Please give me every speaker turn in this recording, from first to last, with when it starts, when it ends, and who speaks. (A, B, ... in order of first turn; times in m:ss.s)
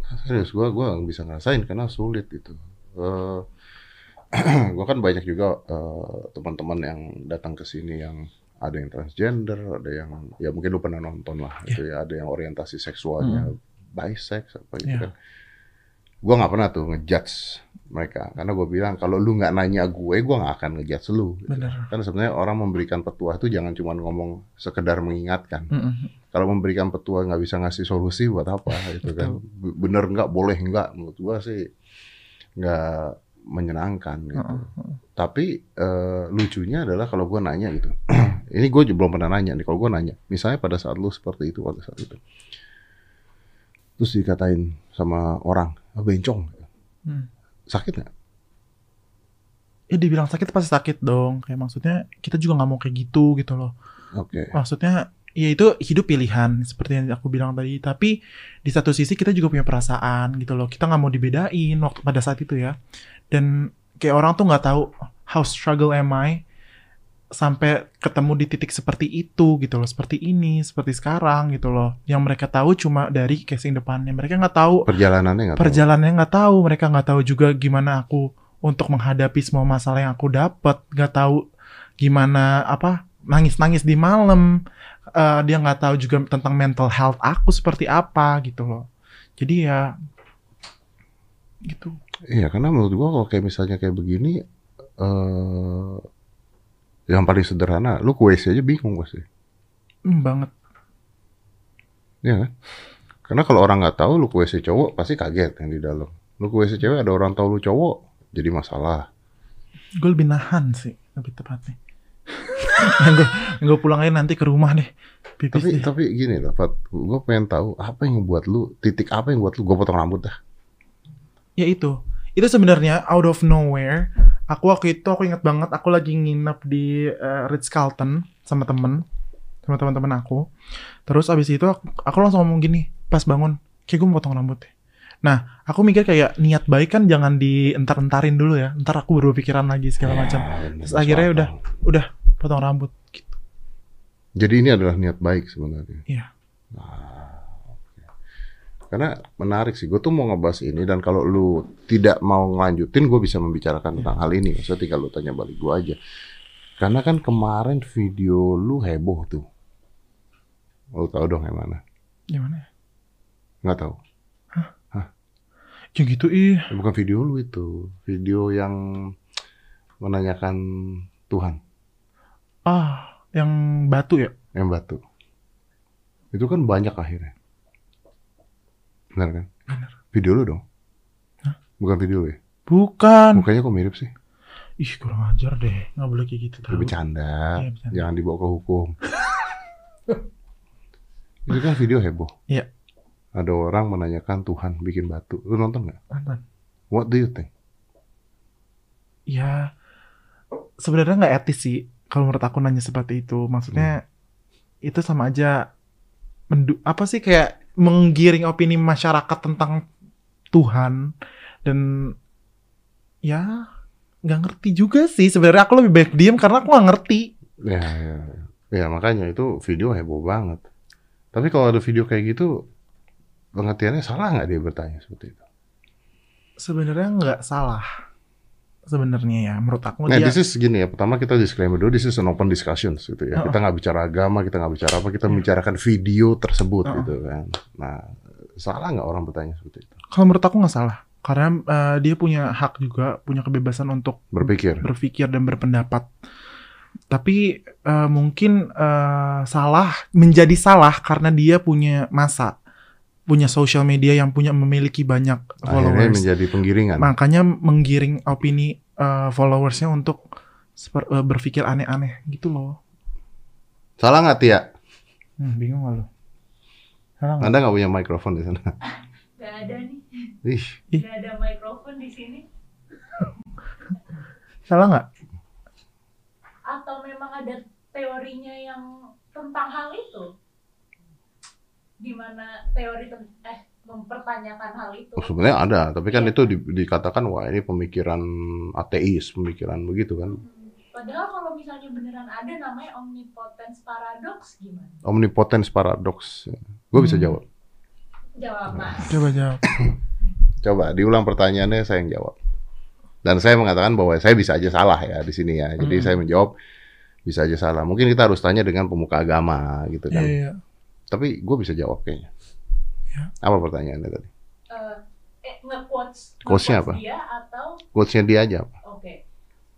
0:00.1-0:03.4 A
0:04.3-0:15.1 A
0:13.2-0:13.5 B
0:16.2-0:25.7 A
0:21.5-0:21.9 B
0:25.7-0:26.1 B
0:26.3-0:31.7 A
0:29.0-0:29.4 B
0:32.6-0:42.2 A
0:34.4-0:35.0 B
0:44.0-0:46.6 A
0:47.7-0:48.1 A
0:49.9-0:53.7 B
0:54.1-0:54.5 A
0:54.5-1:02.8 B
1:03.3-1:06.4 B
1:07.4-1:14.9 B
1:14.9-1:15.8 A
1:15.6-1:21.4 B
1:22.0-1:24.6 B
1:25.1-1:28.9 B
1:29.4-1:29.9 B
1:31.7-1:32.0 B
1:32.3-1:34.4 A
1:35.0-1:36.0 A
1:37.1-1:39.2 A
1:40.1-1:40.5 B
1:42.2-1:42.5 A
1:43.3-1:49.1 A
1:50.0-1:51.8 B
1:52.3-1:55.9 B
1:55.5-2:00.4 A
2:01.6-2:09.0 B
2:09.6-2:10.4 B
2:11.1-2:14.7 B
2:15.2-2:23.4 B
2:20.0-2:21.6 A
2:24.4-2:26.0 A
2:26.7-2:27.6 A
2:28.9-2:36.0 A
2:36.8-2:39.4 A
2:40.9-2:41.8 A
2:42.3-2:42.7 B
2:43.6-2:44.0 A
2:45.9-2:46.7 B
2:46.7-2:49.1 A
2:50.0-2:51.6 A
2:52.6-2:54.3 B
2:54.5-2:55.0 A
2:56.3-2:57.3 A
2:59.2-2:59.5 A
2:59.7-2:59.9 B
3:00.1-3:00.6 A
3:01.8-3:02.4 A
3:02.7-3:03.4 B
3:03.3-3:04.1 A
3:04.8-3:06.9 B
3:06.7-3:09.0 A
3:07.6-3:08.0 B
3:11.5-3:12.3 A
3:13.4-3:16.0 A
3:16.1-3:16.4 B
3:16.9-3:17.5 A
3:19.3-3:19.7 B
3:20.8-3:24.0 B
3:24.8-3:25.6 B
3:26.5-3:29.9 B
3:30.5-3:31.1 B
3:31.6-3:32.1 B
3:33.2-3:33.6 B
3:34.3-3:37.3 B
3:37.6-3:40.6 A
3:41.3-3:42.6 A
3:43.6-3:45.4 A
3:46.6-3:47.9 B
3:48.9-3:50.4 B
3:50.1-4:00.0 A
3:56.9-3:57.1 B
4:00.1-4:06.1 B
4:04.3-4:04.8 A
4:07.1-4:12.5 B
4:13.3-4:16.3 B
4:15.6-4:17.1 A
4:17.0-4:20.2 B
4:20.8-4:22.8 B
4:24.0-4:24.6 A
4:25.4-4:26.1 B
4:27.2-4:27.6 B
4:27.4-4:28.7 A
4:29.4-4:30.3 C
4:30.4-4:30.8 A
4:30.9-4:32.4 C
4:34.7-4:35.0 B
4:36.7-4:40.3 C
4:42.0-4:45.4 C
4:45.2-4:50.4 A
4:46.1-4:46.5 C
4:50.3-4:55.0 C
4:55.0-4:57.4 A
4:56.9-4:57.4 B
4:58.4-4:59.2 C
4:59.0-4:59.6 B
4:59.6-5:00.0 A
5:00.6-5:02.4 A
5:03.2-5:06.5 A
5:05.8-5:06.2 B
5:07.2-5:10.4 A
5:10.1-5:10.6 B
5:11.1-5:12.3 A
5:13.4-5:14.3 A
5:14.7-5:17.8 C
5:16.4-5:17.0 A
5:17.9-5:18.7 A
5:18.8-5:19.2 C